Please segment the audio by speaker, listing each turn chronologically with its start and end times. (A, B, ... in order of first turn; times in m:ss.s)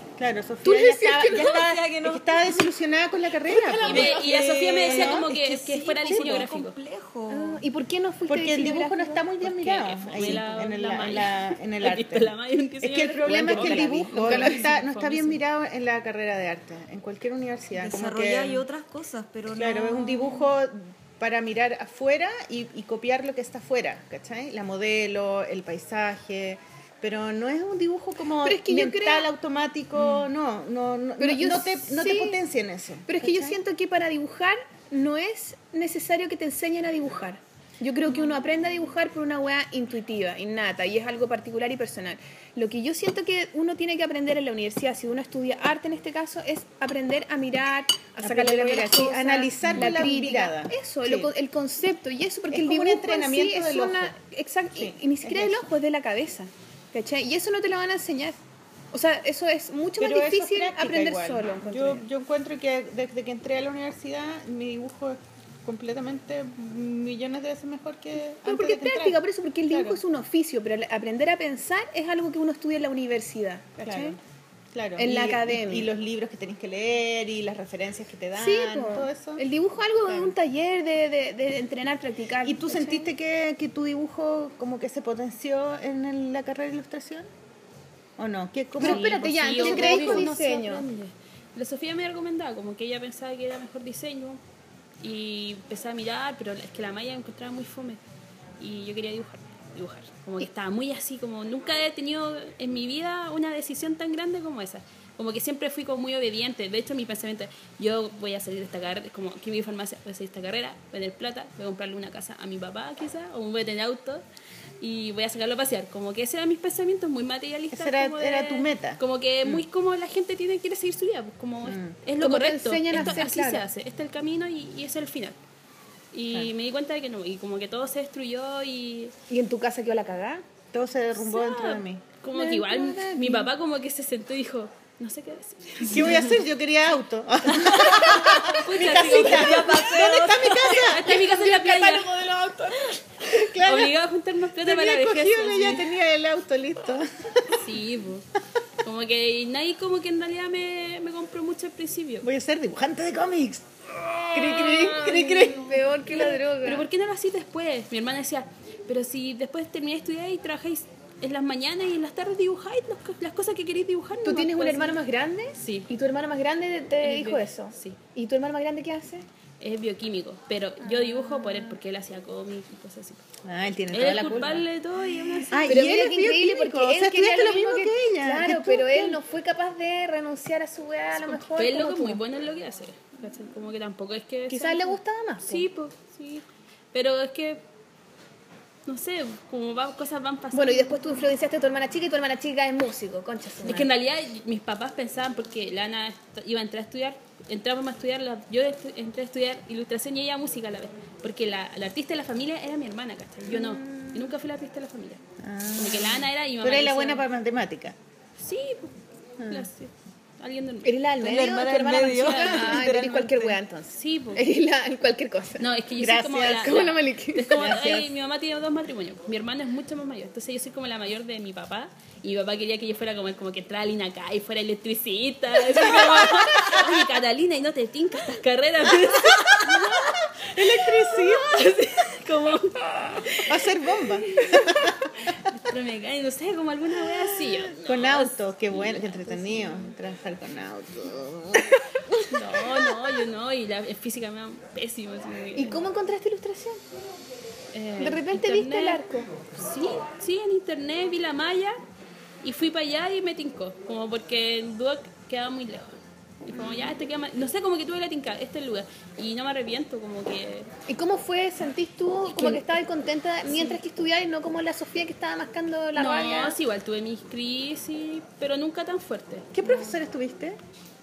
0:00.2-0:04.2 A
0:00.6-0:01.7 B
0:01.3-0:02.4 C
0:03.5-0:04.2 B
0:03.8-0:06.7 D
0:03.8-0:07.6 C
0:04.8-0:05.3 A
0:07.3-0:09.3 B
0:08.3-0:18.6 A
0:09.4-0:15.4 D
0:13.3-0:14.5 B
0:17.8-0:20.5 C
0:19.5-0:33.6 A
0:28.4-0:29.3 B
0:31.2-0:32.4 B
0:33.1-0:58.4 B
0:48.2-0:51.3 A
0:52.5-0:54.2 A
0:54.8-0:55.7 A
0:58.9-1:02.0 B
1:00.0-1:10.0 A
1:08.4-1:14.2 B
1:13.8-1:14.2 A
1:14.7-1:19.4 A
1:15.0-1:15.9 B
1:18.4-1:23.1 B
1:20.0-1:20.4 A
1:22.4-1:27.3 A
1:28.2-1:30.4 A
1:28.8-1:30.9 B
1:28.8-1:34.4 D
1:35.0-1:38.0 D
1:38.6-1:54.2 D
1:54.8-2:05.4 D
1:57.7-1:59.6 A
2:01.6-2:02.0 A
2:02.2-2:03.6 B
2:02.9-2:03.2 A
2:06.1-2:09.1 D
2:09.3-2:10.4 B
2:10.7-2:12.0 A
2:11.2-2:16.4 D
2:12.3-2:13.5 B
2:15.8-2:21.8 A
2:17.5-2:18.4 C
2:18.3-2:22.1 D
2:19.0-2:20.8 C
2:23.2-2:24.0 A
2:23.6-2:25.9 D
2:24.5-2:27.6 A
2:27.5-2:28.3 D
2:28.8-2:32.3 D
2:32.2-2:35.9 A
2:34.4-2:35.5 D
2:34.6-2:36.9 B
2:36.1-2:45.0 D
2:44.2-2:49.3 B
2:45.6-2:45.9 D
2:47.0-2:48.0 D
2:49.6-2:53.2 D
2:50.8-2:51.8 B
2:53.4-2:54.6 A
2:53.9-2:55.9 D
2:55.2-2:59.2 A
2:55.7-3:02.2 B
3:01.2-3:07.6 D
3:04.5-3:05.7 B
3:08.9-3:11.2 D
3:10.5-3:13.9 B
3:13.6-3:25.2 D
3:23.5-3:24.3 A
3:25.4-3:28.0 A
3:25.8-3:27.3 D
3:28.4-3:28.9 D
3:29.4-3:29.7 A
3:29.5-3:30.9 D
3:30.8-3:35.7 B
3:31.2-3:33.6 C
3:32.2-3:32.8 D
3:33.9-3:34.5 D
3:35.6-3:59.9 D
3:36.0-3:36.8 A
3:36.6-3:37.7 B
3:37.5-3:38.1 A
3:45.7-3:46.6 A
3:49.7-3:51.7 A
3:53.3-3:55.0 A
3:57.1-4:01.8 A
4:02.3-4:05.8 D
4:05.6-4:06.8 B
4:07.7-4:09.0 D
4:08.0-4:09.3 B
4:09.5-4:11.8 D
4:12.4-4:20.7 D
4:16.5-4:16.9 B
4:20.9-4:26.6 B
4:22.3-4:22.6 D
4:23.5-4:23.8 D
4:26.0-4:29.9 D
4:29.5-4:30.6 A